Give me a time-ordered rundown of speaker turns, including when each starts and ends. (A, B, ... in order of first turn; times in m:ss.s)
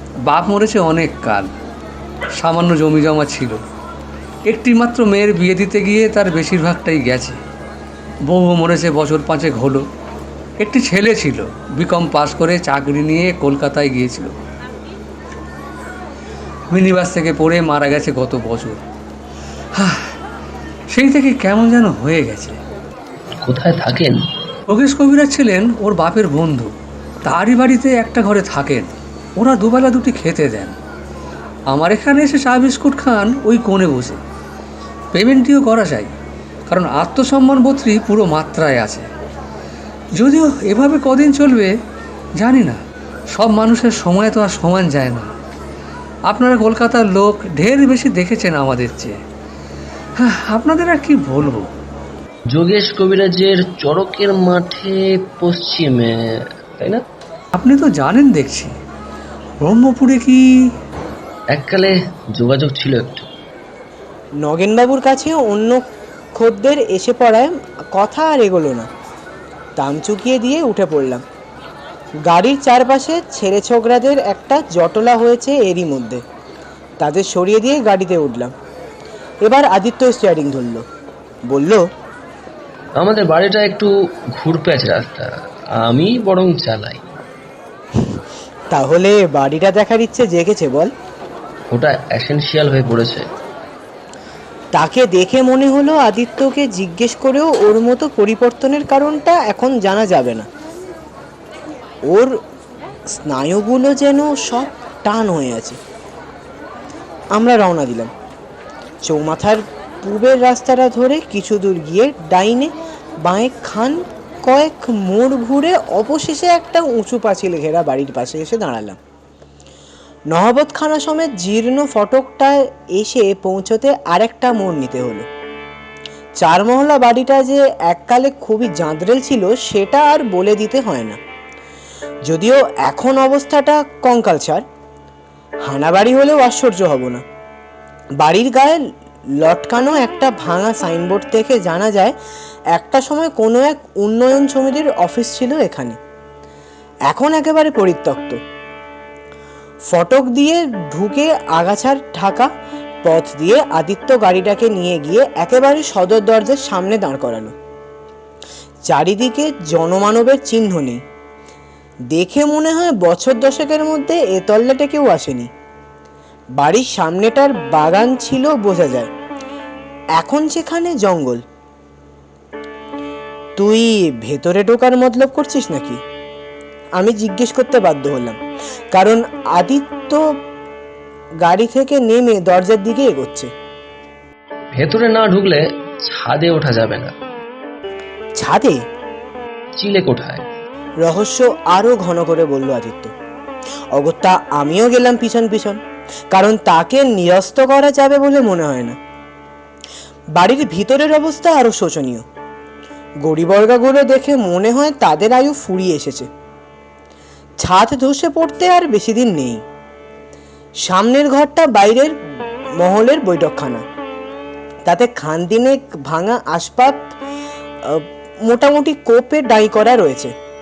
0:00.2-0:01.5 A
0:02.4-0:03.6 A
0:04.4-0:07.4 A
0:08.2-0:09.9 A
0:10.6-0:14.3 A
0:16.7-0:18.8 A
0:19.7-0:20.1 A
0:20.9-0:22.6 A
0:23.4-0:24.3 B
0:24.7-0:26.7 A
0:27.2-0:30.7 A
0:31.7-0:34.2 A
0:35.1-0:36.2 A
0:36.7-0:39.1 A
0:40.1-0:41.8 A
0:42.4-0:42.8 A
0:43.3-0:45.3 A
0:46.3-0:49.2 A
0:50.2-0:51.7 A
0:52.5-0:57.0 B
0:57.5-0:58.7 A
0:59.6-1:00.7 A
1:01.5-1:03.3 B
1:04.4-1:05.8 C
1:06.3-1:08.9 C
1:09.8-1:11.2 C
1:12.2-1:16.2 C
1:17.0-1:18.5 C
1:19.4-1:20.8 C
1:21.5-1:21.8 C
1:23.0-1:27.0 B
1:28.7-1:30.9 C
1:31.7-1:33.3 B
1:34.7-1:40.5 C
1:42.1-1:42.4 C
1:43.2-1:45.8 C
1:47.3-1:48.1 C
1:49.0-1:52.7 C
1:53.2-1:59.0 C
2:00.3-2:05.3 C
2:06.4-2:11.2 C
2:12.3-2:14.6 C
2:15.6-2:17.2 C
2:18.2-2:18.8 C
2:19.4-2:22.2 C
2:22.7-2:26.0 C
2:27.1-2:28.4 C
2:29.9-2:32.5 C
2:33.0-2:37.5 C
2:38.9-2:41.0 C
2:42.1-2:45.5 C
2:46.6-2:49.1 C
2:50.2-2:51.4 C
2:53.6-2:56.0 C
2:57.0-2:58.4 C
2:58.9-3:00.2 C
3:01.4-3:03.5 C
3:04.7-3:07.1 B
3:08.4-3:08.8 C
3:09.8-3:10.4 B
3:11.0-3:13.1 C
3:13.9-3:15.8 C
3:16.3-3:19.0 C
3:20.3-3:22.2 C
3:23.2-3:26.3 C
3:27.6-3:29.6 C
3:30.8-3:32.2 C
3:32.8-3:33.8 C
3:34.8-3:37.1 C
3:37.8-3:40.3 C